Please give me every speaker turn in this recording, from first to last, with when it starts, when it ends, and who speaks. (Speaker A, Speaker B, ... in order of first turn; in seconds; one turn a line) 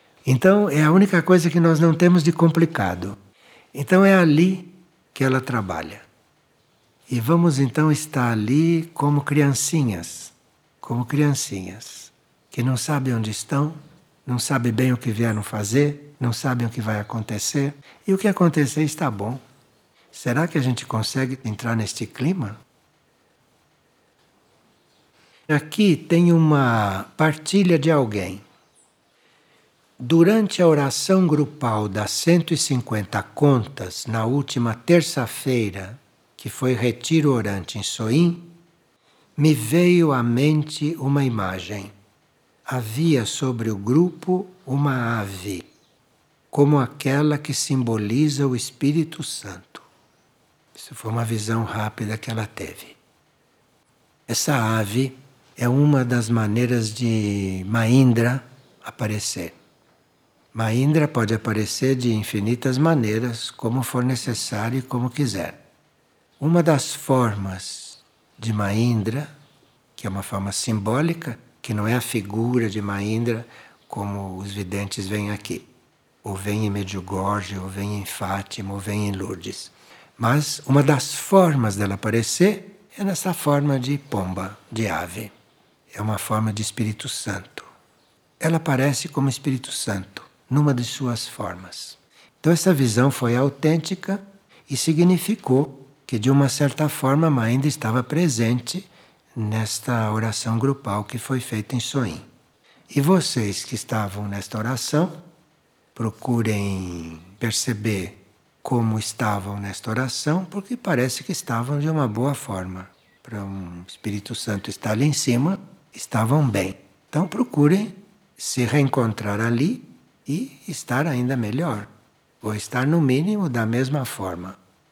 Speaker A: 0.2-3.2
Speaker A: 3.7-6.1
Speaker A: 7.1-19.4
Speaker A: 20.1-22.6
Speaker A: 25.5-28.4
Speaker A: 30.0-38.5
Speaker A: 39.4-41.9
Speaker A: 42.7-45.7
Speaker A: 46.5-49.9
Speaker A: 50.7-53.0
Speaker A: 54.3-59.5
Speaker A: 60.5-65.6
Speaker A: 66.4-69.3
Speaker A: 70.0-75.7
Speaker A: 76.2-85.3
Speaker A: 85.9-87.7
Speaker A: 88.4-102.2
Speaker A: 102.9-105.2
Speaker A: 106.0-121.9
Speaker A: 122.4-124.6